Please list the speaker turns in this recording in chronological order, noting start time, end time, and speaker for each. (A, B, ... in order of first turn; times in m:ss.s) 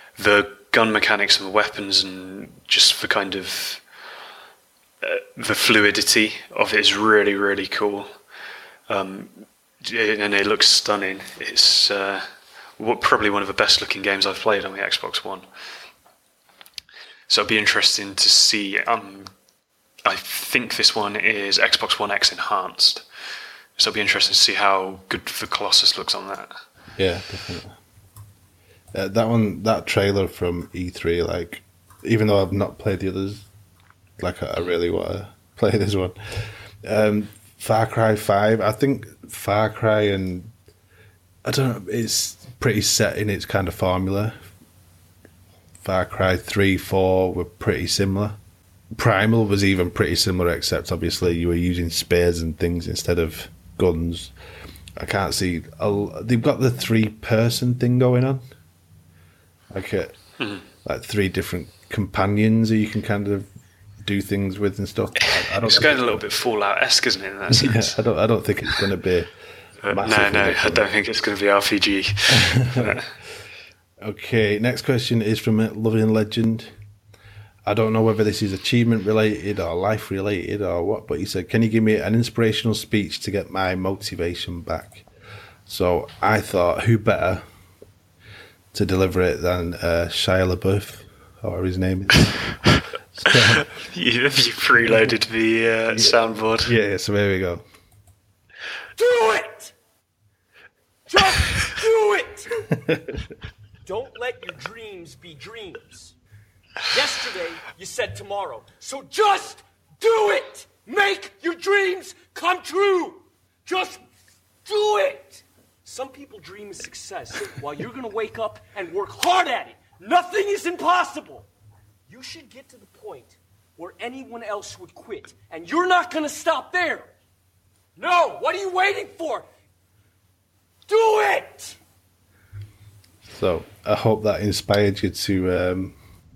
0:00.2-0:03.8 A
0:05.0-0:08.1 A
0:08.9-0:12.2 A
0:12.8-0:15.4 A
0:17.3-0:19.3 A
0:20.0-0:23.0 A
0:23.8-0:26.5 A
0:27.0-0:27.8 B
0:28.9-0:33.5 B
0:34.2-0:40.5 B
0:41.4-0:44.4 B
0:45.8-0:48.4 B
0:48.9-0:54.3 B
0:55.0-0:58.4 B
0:59.7-1:00.1 B
1:00.4-1:00.6 A
1:00.8-1:03.5 B
1:04.0-1:06.2 B
1:05.5-1:08.0 A
1:07.5-1:09.3 B
1:09.8-1:13.1 A
1:09.9-1:10.9 B
1:12.3-1:13.0 B
1:14.0-1:16.7 B
1:17.6-1:25.0 B
1:25.7-1:27.4 B
1:28.7-1:32.4 B
1:33.1-1:33.6 B
1:33.5-1:36.7 A
1:36.6-1:37.6 B
1:39.0-1:39.7 C
1:41.1-1:42.6 C
1:42.7-1:43.2 B
1:43.8-1:46.1 C
1:46.9-1:54.0 C
1:54.6-2:01.5 C
2:02.1-2:07.1 C
2:08.0-2:09.5 C
2:10.9-2:11.8 C
2:13.3-2:16.0 B